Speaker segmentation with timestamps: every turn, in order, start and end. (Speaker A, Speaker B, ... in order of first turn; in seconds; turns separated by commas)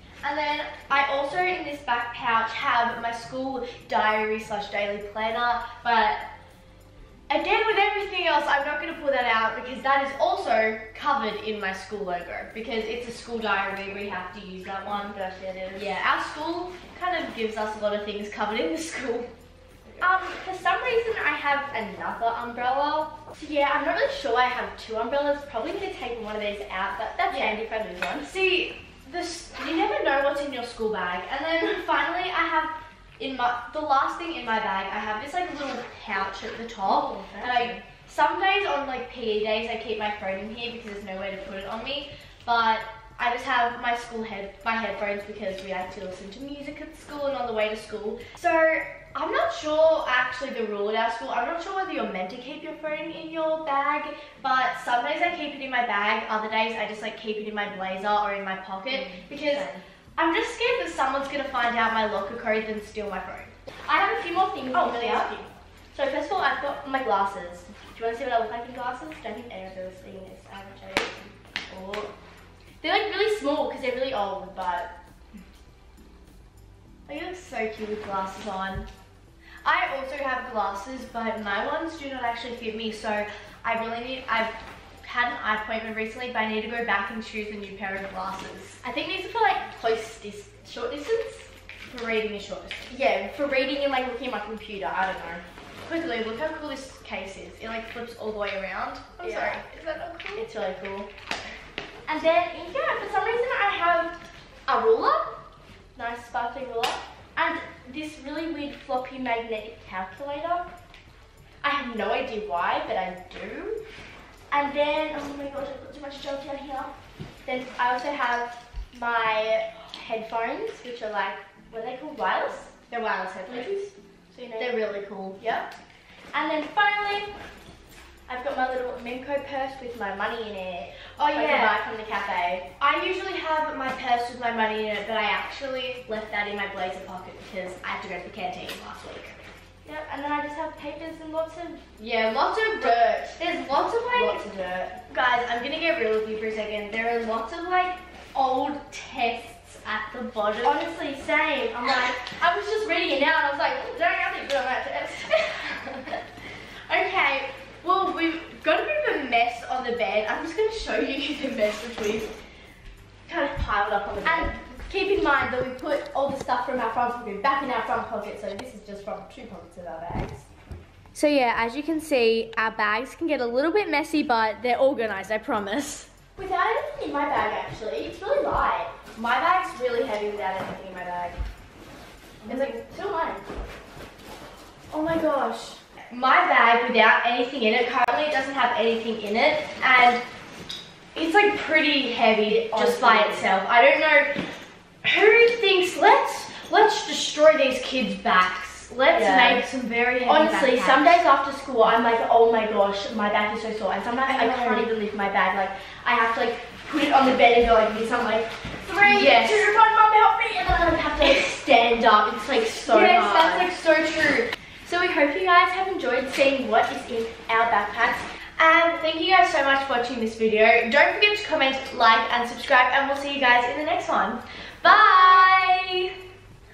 Speaker A: 0.2-6.3, Speaker A: 7.3-15.2, Speaker B: 14.9-16.0, Speaker A: 15.8-19.3, Speaker B: 20.0-28.3, Speaker A: 27.3-27.6, Speaker A: 28.2-63.5, Speaker B: 36.8-37.8, Speaker B: 58.9-59.8, Speaker B: 63.9-72.1, Speaker A: 64.7-65.3, Speaker B: 72.8-74.9, Speaker A: 77.1-78.9, Speaker A: 79.6-88.8, Speaker B: 88.8-91.5, Speaker A: 91.8-92.9, Speaker B: 92.9-95.5, Speaker A: 95.8-100.5, Speaker B: 99.2-99.6, Speaker B: 100.4-101.1, Speaker B: 102.1-105.4, Speaker B: 106.0-110.7, Speaker B: 111.6-113.8, Speaker B: 114.5-116.9, Speaker B: 117.5-122.7, Speaker A: 122.9-123.7, Speaker B: 123.5-124.8, Speaker A: 124.6-125.4, Speaker B: 125.4-125.7, Speaker B: 126.3-127.3, Speaker B: 128.3-132.7, Speaker A: 131.2-131.8, Speaker A: 132.8-139.4, Speaker B: 139.8-141.8, Speaker A: 142.0-144.4, Speaker B: 142.8-143.3, Speaker B: 144.1-145.0, Speaker A: 145.1-150.8, Speaker B: 150.6-156.2, Speaker A: 156.9-162.3, Speaker A: 163.3-164.6, Speaker B: 164.2-170.5, Speaker A: 171.1-176.1, Speaker B: 176.4-179.0, Speaker A: 179.2-181.4, Speaker B: 182.4-183.4, Speaker A: 182.4-182.8, Speaker A: 184.9-190.2, Speaker A: 191.2-194.3, Speaker B: 192.4-193.5, Speaker A: 195.0-201.2, Speaker B: 199.1-199.6, Speaker B: 200.3-213.7, Speaker A: 204.2-204.9, Speaker A: 209.0-209.7, Speaker A: 212.9-214.5, Speaker B: 214.9-218.3, Speaker A: 218.6-226.1, Speaker B: 224.9-225.3